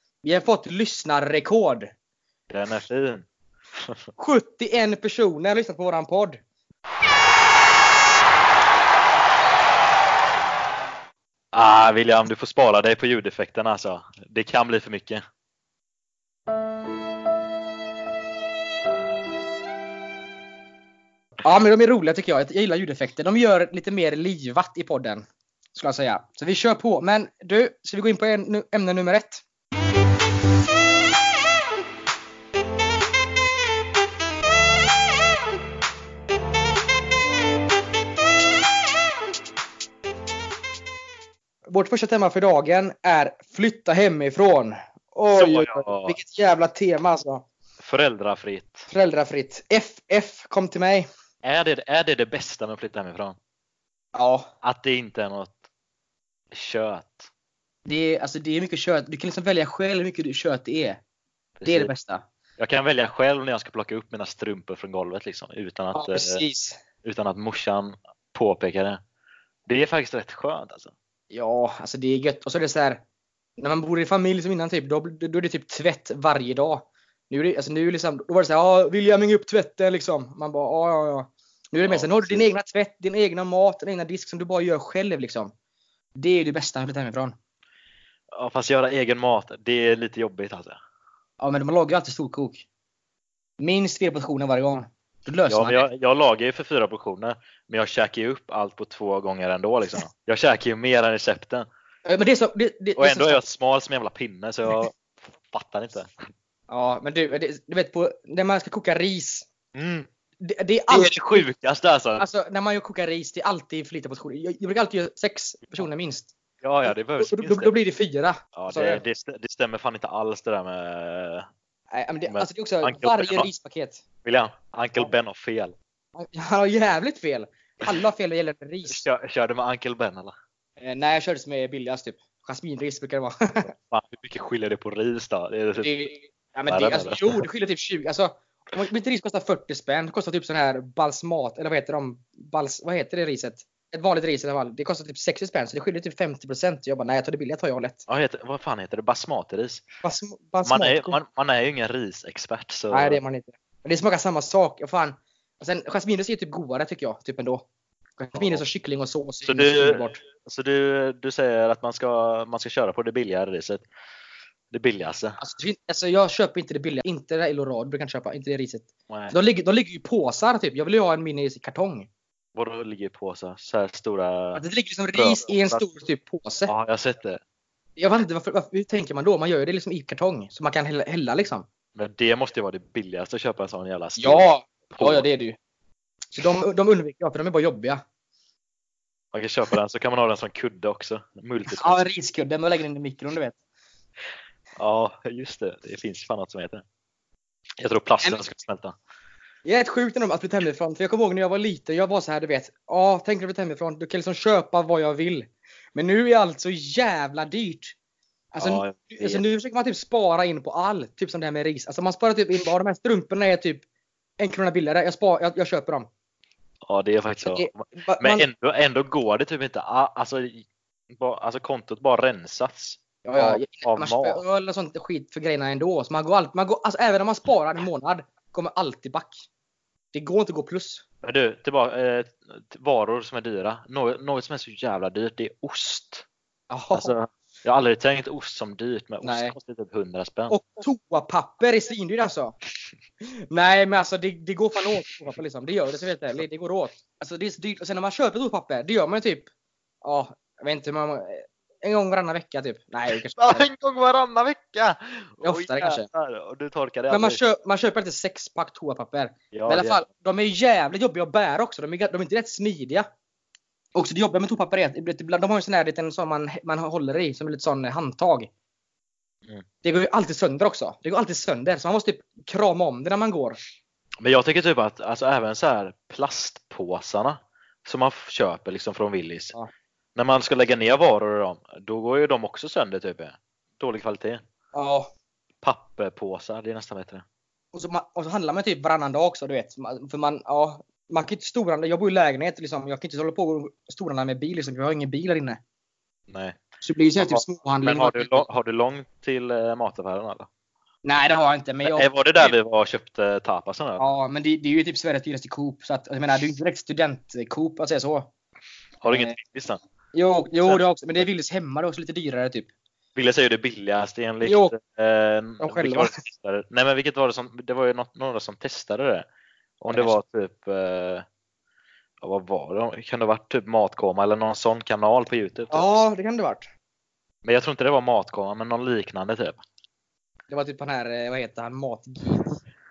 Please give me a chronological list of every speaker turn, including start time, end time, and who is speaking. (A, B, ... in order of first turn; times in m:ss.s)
0:00.2-0:01.9 A
0:02.5-0:03.2 B
0:04.2-0:06.4 A
0:11.5-0:15.2 B
0:21.4-0:29.4 A
0:41.7-0:47.4 A
0:45.3-0:46.2 B
0:47.8-0:48.9 B
0:48.9-0:51.1 A
0:51.4-0:53.4 B
0:54.1-0:54.5 A
0:54.6-0:55.6 B
0:56.5-0:57.3 B
0:57.8-1:01.0 A
1:01.6-1:01.9 B
1:01.6-1:02.2 A
1:02.6-1:06.4 B
1:05.9-1:06.8 A
1:07.0-1:09.0 B
1:09.7-1:10.9 B
1:11.3-1:13.0 A
1:13.6-1:25.5 A
1:21.8-1:22.5 B
1:26.2-1:27.3 A
1:28.3-1:30.8 B
1:31.4-1:32.6 A
1:33.6-1:35.8 A
1:35.5-1:41.6 B
1:42.0-1:43.4 A
1:43.0-1:46.2 B
1:46.7-1:49.5 A
1:49.7-1:50.1 B
1:50.4-1:51.4 A
1:50.9-1:52.2 B
1:52.2-1:56.3 A
1:56.6-1:57.7 B
1:56.8-1:59.0 A
1:58.6-2:01.5 B
2:01.9-2:04.0 A
2:02.3-2:03.5 B
2:04.2-2:05.8 B
2:06.2-2:09.0 A
2:08.8-2:10.3 B
2:10.8-2:13.7 A
2:13.9-2:15.9 B
2:15.8-2:28.0 A
2:16.7-2:17.4 B
2:28.1-2:29.8 B
2:30.0-2:31.2 A
2:30.6-2:33.2 B
2:32.9-2:37.6 A
2:38.2-2:40.2 A
2:38.4-2:38.6 B
2:39.4-2:43.8 B
2:44.7-2:45.4 B
2:45.4-2:52.1 A
2:49.1-2:49.4 B
2:52.5-2:54.6 B
2:54.5-2:56.7 A
2:55.1-2:55.8 B
2:56.6-2:57.4 B
2:58.0-3:01.7 A
3:01.9-3:05.3 B
3:04.2-3:05.6 A
3:06.3-3:08.0 A
3:09.3-3:12.0 B
3:11.7-3:13.6 A
3:14.8-3:16.8 B
3:17.8-3:18.9 B
3:19.6-3:28.0 A
3:28.5-3:33.8 A
3:28.6-3:29.4 B
3:34.4-3:36.1 A
3:36.8-3:44.4 B
3:37.4-3:38.4 A
3:43.2-3:49.4 A
3:50.1-3:51.0 A
3:51.2-3:56.2 B
3:56.7-3:57.1 A
3:56.9-4:00.6 B
3:59.2-3:59.6 A
4:00.5-4:02.6 A
4:03.2-4:09.5 A
4:10.0-4:13.6 A
4:13.3-4:17.4 B
4:15.4-4:16.1 A
4:17.1-4:23.0 A
4:19.5-4:20.0 B
4:23.9-4:28.5 A
4:29.8-4:33.6 A
4:34.2-4:39.5 B
4:40.2-4:44.4 B
4:44.7-4:45.1 A
4:45.6-4:47.2 B
4:47.7-4:55.6 A
4:56.3-4:56.6 B
4:56.8-4:58.5 A
4:57.2-5:00.5 B
5:01.0-5:02.5 A
5:01.8-5:04.1 B
5:04.0-5:08.3 A
5:09.0-5:09.8 B
5:09.1-5:09.4 A
5:10.1-5:12.7 A
5:13.2-5:19.2 B
5:14.4-5:14.7 A
5:15.6-5:16.1 A
5:19.8-5:21.2 B
5:19.9-5:20.2 A
5:22.2-5:25.8 B
5:25.7-5:26.7 A
5:27.4-5:29.6 B
5:30.5-5:32.6 A